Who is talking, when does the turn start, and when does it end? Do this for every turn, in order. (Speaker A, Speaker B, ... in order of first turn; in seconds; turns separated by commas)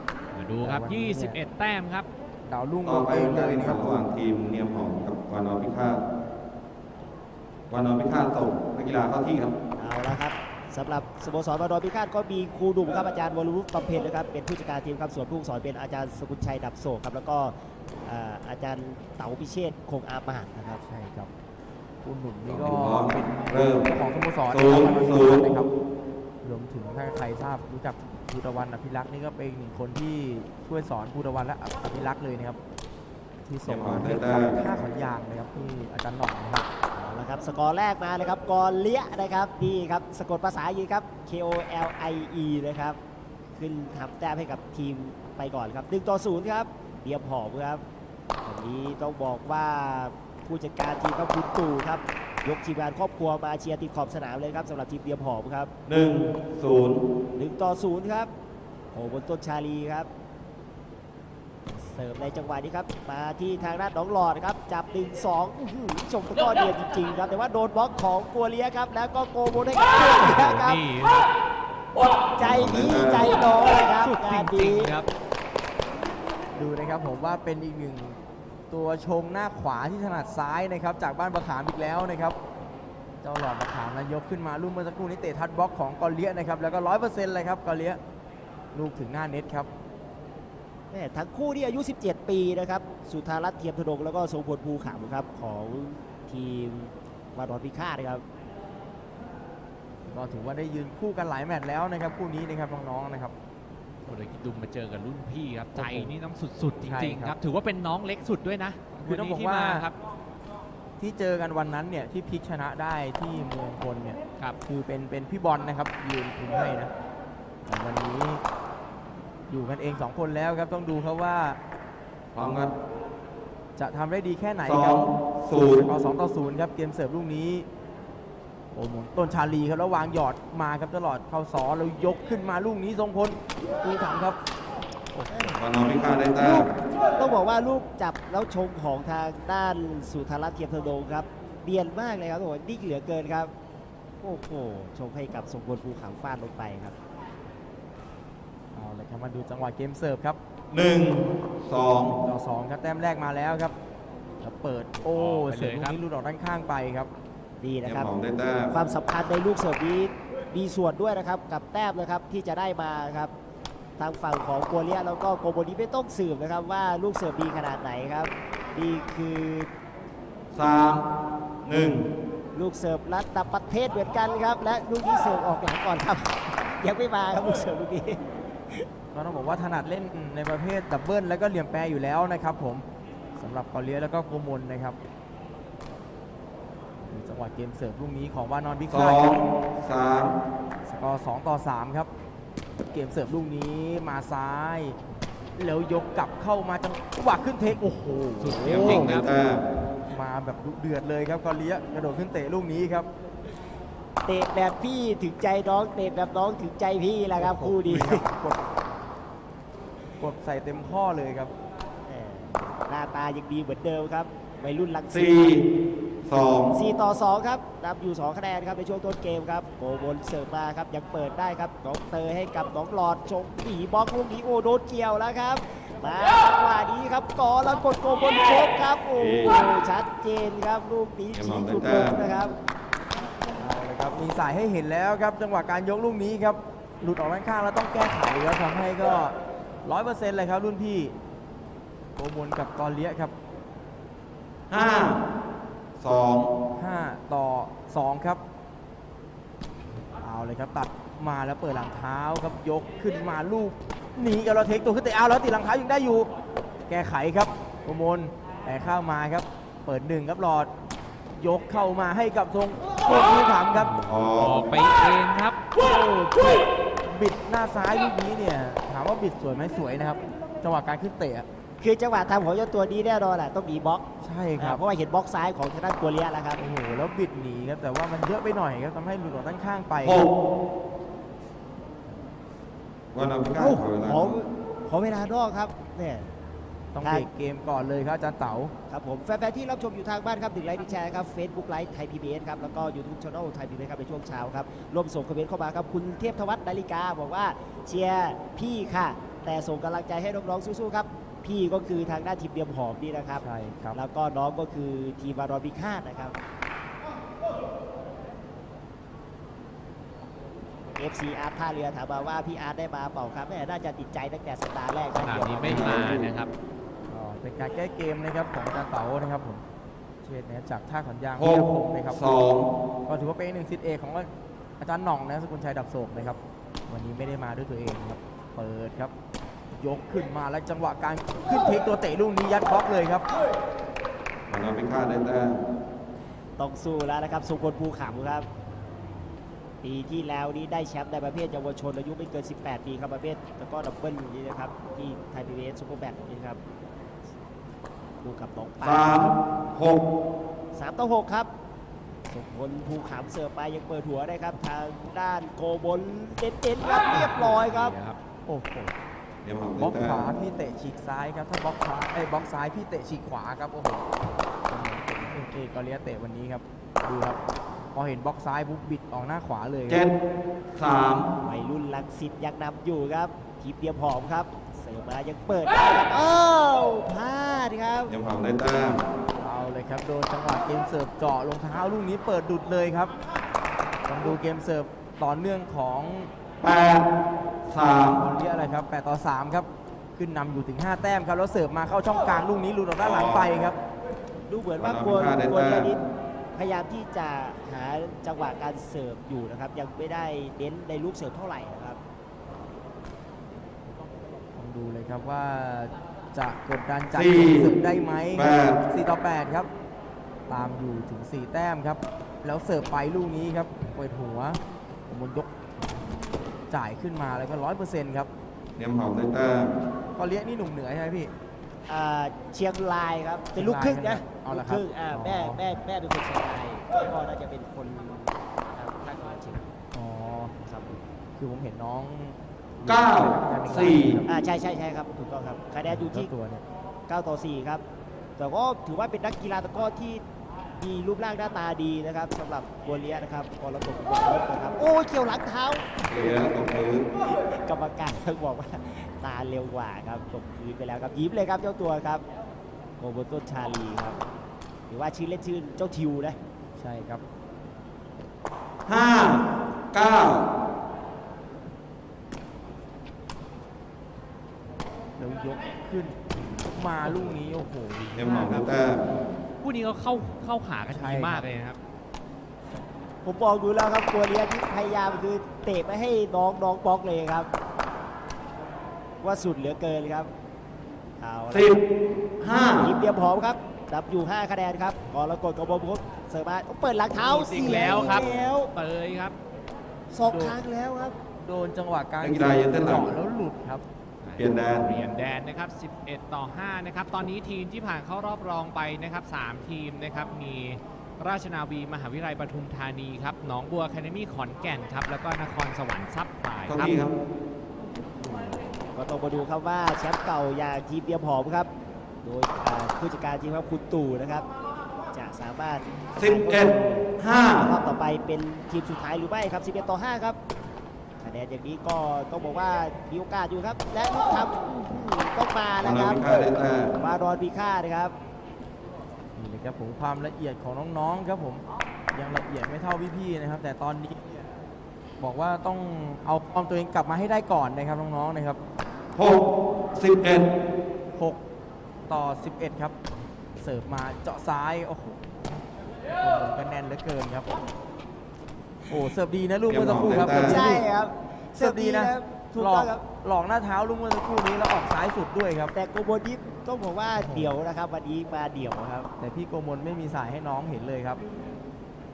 Speaker A: 0.3-2.1, Speaker B: 0.6-1.4, Speaker B: 2.5-4.0, Speaker C: 2.8-6.0, Speaker C: 7.7-9.5, Speaker D: 9.8-20.8, Speaker B: 20.8-21.3, Speaker B: 22.0-25.7, Speaker C: 22.4-23.9, Speaker C: 24.5-25.4, Speaker B: 26.4-32.6, Speaker B: 33.5-36.7, Speaker C: 33.7-34.6, Speaker D: 36.9-43.0, Speaker D: 43.5-47.8, Speaker D: 48.4-55.7, Speaker C: 55.9-57.0, Speaker D: 57.3-58.3, Speaker D: 58.9-60.1, Speaker D: 61.7-70.8, Speaker A: 70.2-71.3, Speaker D: 72.3-74.9, Speaker C: 72.4-73.3, Speaker A: 73.8-75.1, Speaker B: 76.5-78.2, Speaker B: 78.7-82.3, Speaker B: 83.2-88.0, Speaker B: 88.7-89.7, Speaker D: 90.9-98.2, Speaker B: 100.0-103.3, Speaker A: 104.0-109.9, Speaker B: 105.7-106.1, Speaker B: 106.8-107.3, Speaker B: 109.0-109.9, Speaker B: 111.0-116.9, Speaker B: 117.7-118.4, Speaker B: 119.5-121.6, Speaker C: 122.3-122.7, Speaker B: 123.8-127.7, Speaker C: 124.7-125.9, Speaker B: 128.7-134.4, Speaker B: 135.1-135.6, Speaker D: 135.3-135.6, Speaker C: 135.6-136.7, Speaker D: 136.4-143.5, Speaker D: 144.2-147.0, Speaker B: 148.7-150.4, Speaker C: 150.7-152.2, Speaker B: 152.1-153.7, Speaker B: 154.4-157.1, Speaker A: 155.1-156.0, Speaker D: 157.6-158.1, Speaker C: 157.8-158.7, Speaker D: 158.7-163.3, Speaker D: 164.0-169.7, Speaker C: 170.5-171.1, Speaker C: 171.7-172.1, Speaker D: 172.5-178.8, Speaker B: 179.1-182.8, Speaker B: 183.4-185.0, Speaker B: 187.0-189.5, Speaker C: 188.9-190.3, Speaker B: 190.8-192.1, Speaker B: 192.9-195.0, Speaker B: 195.6-203.1, Speaker A: 198.4-199.4, Speaker C: 198.7-199.6, Speaker D: 204.2-208.2, Speaker B: 207.3-208.6, Speaker B: 210.2-211.5, Speaker D: 212.1-215.6, Speaker C: 215.1-215.7, Speaker C: 216.2-216.7, Speaker D: 216.7-232.5, Speaker C: 229.2-229.6, Speaker C: 231.3-232.2, Speaker B: 233.6-241.2, Speaker B: 242.2-243.3, Speaker C: 244.7-245.2, Speaker C: 246.0-246.5, Speaker B: 246.8-248.4, Speaker B: 250.2-256.3, Speaker B: 256.9-260.7, Speaker B: 261.4-264.3, Speaker C: 264.0-264.6, Speaker A: 264.3-265.6, Speaker B: 265.8-271.5, Speaker D: 271.8-274.0, Speaker B: 274.2-274.8, Speaker D: 274.6-276.6, Speaker B: 276.6-280.3, Speaker C: 280.0-280.3, Speaker C: 283.1-284.3, Speaker D: 283.6-286.3, Speaker B: 286.9-288.7, Speaker D: 288.9-306.4, Speaker B: 303.4-304.0, Speaker D: 311.0-316.1, Speaker A: 315.1-316.5, Speaker C: 315.6-316.2, Speaker B: 317.1-319.6, Speaker B: 320.2-322.3, Speaker C: 321.4-322.7, Speaker B: 323.1-324.3, Speaker B: 324.8-329.1, Speaker B: 329.7-333.2, Speaker C: 334.5-335.6, Speaker D: 336.6-338.5, Speaker D: 339.8-346.6, Speaker D: 348.2-349.4, Speaker C: 348.8-350.0, Speaker D: 350.7-351.5, Speaker D: 352.3-357.9, Speaker A: 357.1-358.2, Speaker B: 358.4-358.9, Speaker C: 359.4-360.2, Speaker B: 359.8-364.1, Speaker B: 364.7-367.4, Speaker B: 367.9-370.1, Speaker C: 370.7-371.3, Speaker D: 371.4-378.1, Speaker C: 378.1-379.0, Speaker B: 379.4-383.1, Speaker B: 384.1-386.3, Speaker C: 386.6-387.1, Speaker C: 387.7-388.2, Speaker B: 388.2-393.8, Speaker C: 393.0-393.4, Speaker D: 394.5-396.0, Speaker C: 394.8-395.9, Speaker D: 396.5-402.0, Speaker B: 404.5-409.7, Speaker C: 407.1-407.7, Speaker C: 408.3-408.8, Speaker B: 410.5-415.5, Speaker B: 416.7-418.3, Speaker C: 418.8-419.7, Speaker B: 420.1-421.3, Speaker D: 421.9-429.7, Speaker B: 423.6-425.6, Speaker B: 429.9-430.5, Speaker D: 430.6-431.1, Speaker B: 431.4-434.3, Speaker C: 432.8-434.2, Speaker D: 434.2-436.3, Speaker B: 435.8-436.6, Speaker D: 437.1-437.8, Speaker D: 438.4-440.2, Speaker D: 440.8-446.6, Speaker C: 446.1-447.1, Speaker D: 447.1-452.2, Speaker D: 453.0-454.2, Speaker D: 454.9-456.4, Speaker B: 456.8-457.2, Speaker C: 458.9-460.5, Speaker B: 465.2-468.6, Speaker C: 468.1-469.0, Speaker A: 469.6-471.8, Speaker B: 470.9-471.4, Speaker D: 473.2-477.5, Speaker D: 479.2-480.3, Speaker D: 481.2-481.8, Speaker C: 482.4-482.9, Speaker D: 482.8-488.7, Speaker A: 487.2-489.3, Speaker D: 490.1-491.1, Speaker B: 490.3-490.6, Speaker B: 491.4-493.8, Speaker C: 492.2-493.1, Speaker A: 494.2-507.0, Speaker C: 494.4-494.9, Speaker C: 506.7-507.1, Speaker D: 508.2-511.7, Speaker D: 512.2-514.5, Speaker D: 515.1-520.4, Speaker C: 516.2-517.7, Speaker D: 521.2-528.1, Speaker C: 525.8-526.9, Speaker B: 529.4-534.4, Speaker B: 535.2-538.6, Speaker C: 539.1-539.4, Speaker C: 540.0-540.5, Speaker B: 542.1-542.9, Speaker B: 543.6-545.2, Speaker B: 546.2-547.5, Speaker B: 548.9-550.8, Speaker C: 549.7-550.6, Speaker D: 550.3-553.0, Speaker B: 551.6-555.7, Speaker D: 555.7-559.1, Speaker B: 557.1-557.6, Speaker B: 559.2-561.2